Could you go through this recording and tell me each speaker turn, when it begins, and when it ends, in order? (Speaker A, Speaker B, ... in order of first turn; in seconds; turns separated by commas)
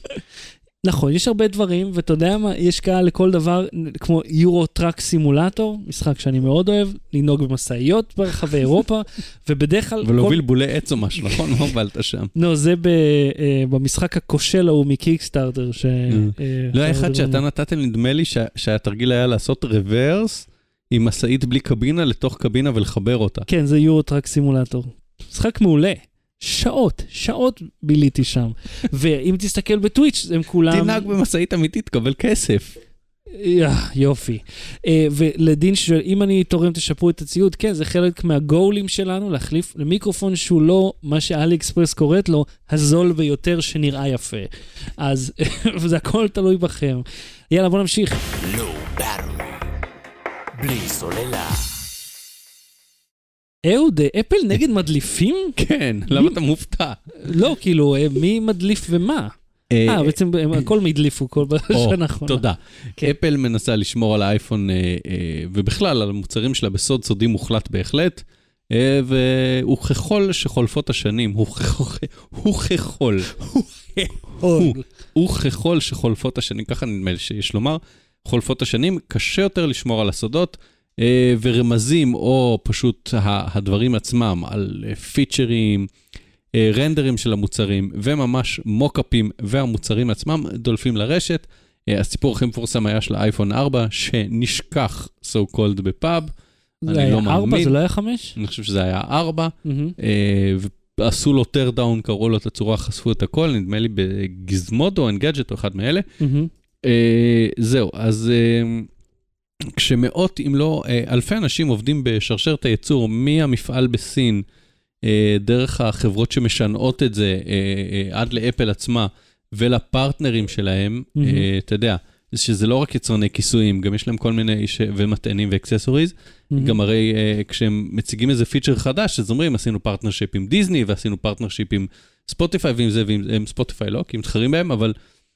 Speaker A: 0.8-10.4, Speaker B: 10.0-12.3, Speaker A: 12.3-17.4, Speaker B: 16.1-23.5, Speaker A: 23.5-31.1, Speaker B: 30.7-32.8, Speaker A: 33.3-48.2, Speaker C: 48.4-49.7, Speaker C: 50.5-51.8, Speaker A: 53.6-55.6, Speaker B: 55.6-57.0, Speaker A: 56.1-56.4, Speaker A: 57.2-62.4, Speaker B: 59.7-60.1, Speaker B: 61.7-73.4, Speaker A: 73.5-74.8, Speaker B: 74.4-85.9, Speaker B: 86.5-96.3, Speaker A: 96.8-98.3, Speaker B: 96.9-97.7, Speaker B: 98.3-106.1, Speaker A: 99.6-100.0, Speaker A: 106.2-106.5, Speaker B: 106.8-108.9, Speaker B: 109.7-114.4, Speaker B: 115.0-134.9, Speaker A: 121.2-121.5, Speaker A: 126.5-126.8